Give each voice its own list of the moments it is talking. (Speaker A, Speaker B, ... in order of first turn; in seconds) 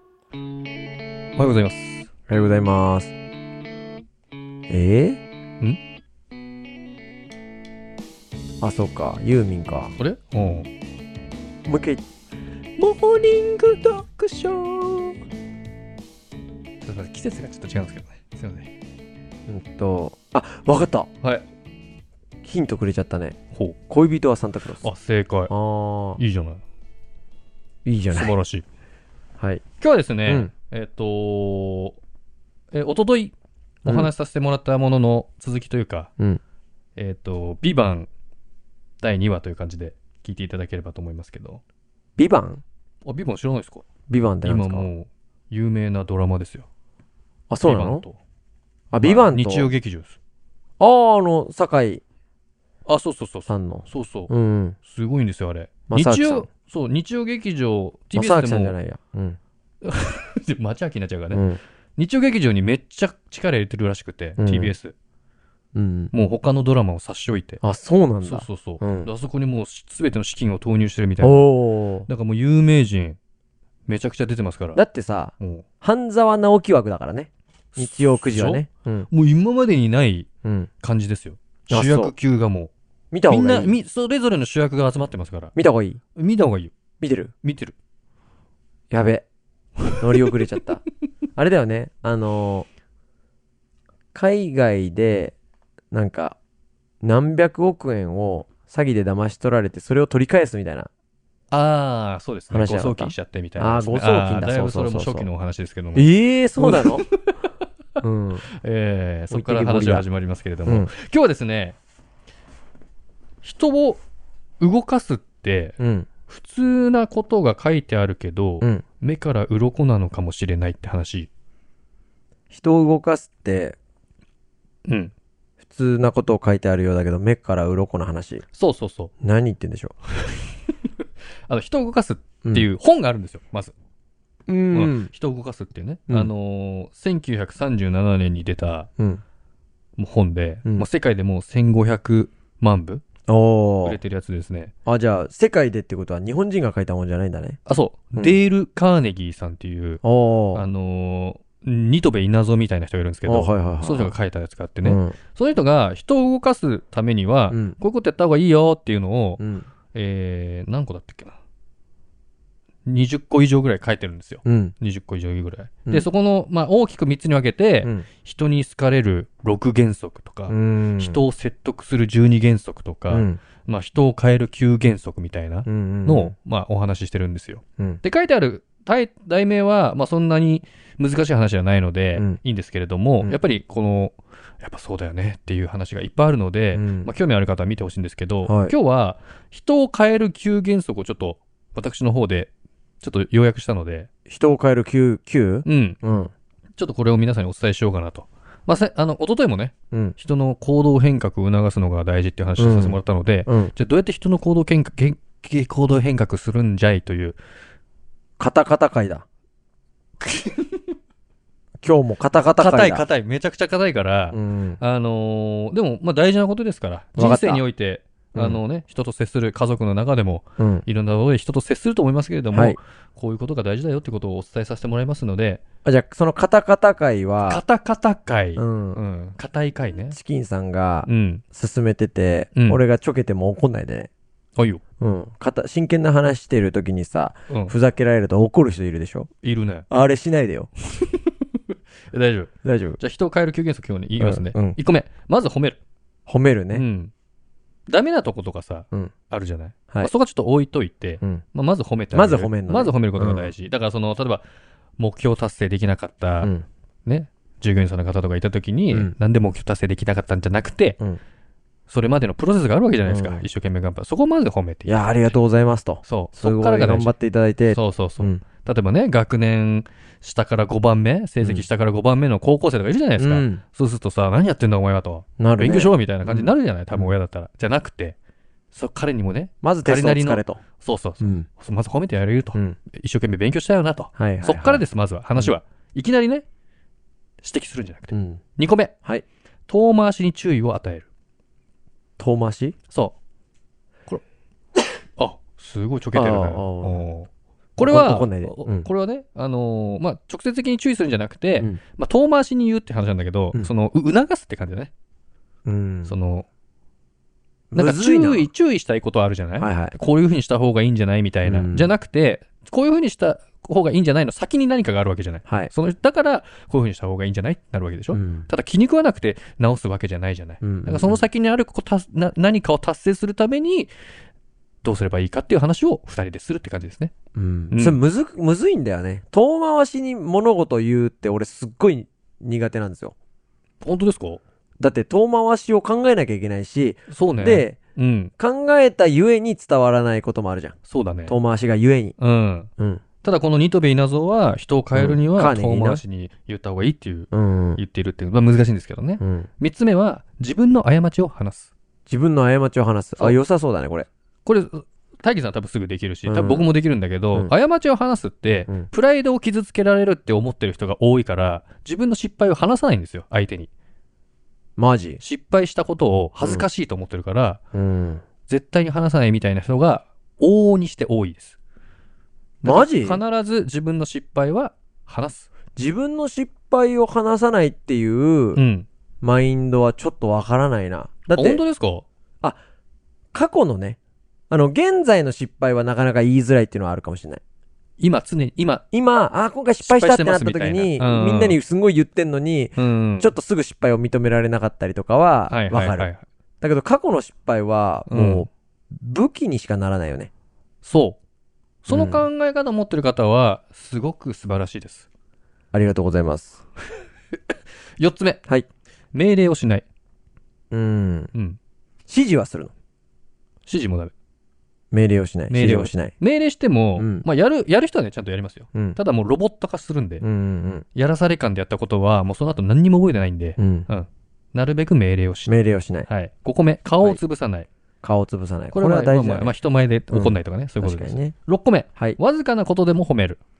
Speaker A: 1.4-2.1, 10.0-10.7, 12.8-15.1, 16.8-18.7, 24.8-25.5, 26.2-26.6, 28.1-28.6, 29.8-32.0, 32.7-36.1, 37.0-38.1, 39.0-41.6, 43.0-43.9, 44.4-46.7, 47.6-48.2, 49.0-50.2, 52.9-54.3, 54.9-58.8, 59.8-61.4, 62.0-65.0, 66.1-67.6, 68.2-71.5, 72.1-73.2, 73.9-74.8, 75.4-75.6, 77.8-80.3, 80.8-82.7, 83.3-85.5, 86.2-86.7, 87.4-87.8, 101.5-107.5, 108.6-111.8, 113.4-114.0, 114.6-115.8, 116.3-121.3, 124.9-125.1, 128.5-129.1, 131.5-133.7, 134.7-138.9, 140.0-143.0, 143.8-144.7, 147.7-150.0, 150.6-159.4, 159.9-161.4, 162.9-194.1, 195.7-196.0, 196.8-207.4, 210.2-210.8, 212.6-225.6, 227.5-230.2, 231.1-231.4, 232.6-232.8, 237.5-237.8, 239.4-239.9, 241.1-245.8, 246.7-247.1, 247.9-254.4, 255.0-256.5, 257.1-261.0, 261.9-265.4, 266.1-267.1, 267.7-278.2, 278.7-286.4, 287.4-288.9, 289.7-291.1, 292.9-293.1, 295.2-304.9, 306.1-306.5, 307.8-323.9, 324.8-327.1, 327.7-328.0, 333.8-334.4, 337.1-338.3, 340.9-341.4, 342.2-342.7, 343.2-351.7, 354.4-363.7, 365.2-367.6, 368.5-371.6, 372.6-375.5, 378.6-378.9, 381.3-382.1, 388.0-388.9, 389.8-391.6, 392.8-393.3, 395.5-396.2, 398.1-398.5, 400.8-401.2, 401.8-405.1, 408.0-408.4, 409.1-409.9, 413.7-414.1, 415.5-420.2, 420.9-427.7, 428.7-433.4
Speaker B: 2.3-3.1, 4.7-5.2, 8.6-9.9, 11.7-12.0, 19.5-21.1, 22.4-23.4, 23.9-24.9, 25.5-26.2, 27.9-28.3, 30.3-30.5, 33.9-34.1, 42.2-42.6, 44.1-44.9, 47.5-48.0, 48.9-49.7, 50.8-52.0, 53.5-54.8, 55.9-56.5, 58.1-59.4, 61.3-61.6, 64.4-64.7, 65.7-66.1, 67.6-69.1, 71.2-72.1, 74.8-79.1, 80.4-80.7, 81.7-82.1, 83.1-83.8, 85.6-86.0, 87.0-87.3, 88.9-89.2, 89.9-90.8, 91.4-92.7, 94.1-95.3, 95.9-96.4, 97.0-100.9, 102.5-105.3, 106.0-107.0, 108.0-108.5, 109.3-110.1, 115.8-116.1, 122.5-123.8, 125.6-128.4, 129.2-130.0, 134.5-135.1, 143.3-144.0, 144.9-147.6, 150.0-150.7, 153.3-154.1, 154.8-155.2, 157.5-157.8, 159.4-159.7, 164.4-164.7, 170.5-171.2, 173.1-173.4, 175.7-176.3, 186.7-187.1, 188.4-188.8, 194.3-196.3, 202.6-203.7, 208.4-209.2, 211.8-213.1, 214.3-214.8, 217.2-217.6, 218.3-218.6, 220.6-220.8, 222.5-222.8, 225.8-227.6, 228.6-229.0, 230.1-234.1, 235.0-239.3, 239.9-240.7, 242.6-243.0, 244.2-244.8, 246.3-246.8, 252.1-253.5, 263.1-263.4, 264.9-268.4, 273.2-273.6, 275.4-277.1, 279.6-280.6, 281.2-281.5, 284.2-284.8, 288.1-288.4, 292.2-292.8, 296.1-297.0, 297.8-298.9, 305.7-306.1, 307.7-308.5, 309.6-310.0, 311.4-311.9, 318.1-318.5, 320.6-321.2, 327.4-333.1, 334.8-337.8, 338.4-342.2, 342.8-343.0, 344.9-346.0, 347.3-347.8, 349.2-349.5, 352.1-354.1, 356.3-356.7, 364.8-365.2, 366.4-366.7, 367.7-368.2, 372.6-373.2, 375.8-378.6, 379.2-381.6, 383.3-384.0, 384.5-387.4, 388.9-396.1, 396.6-400.3, 401.9-402.3, 405.7-406.6, 410.7-411.3, 412.1-412.7, 414.9-416.1, 417.0-417.2, 420.2-420.9, 423.6-423.9, 425.5-426.1, 428.0-429.6, 430.1-431.3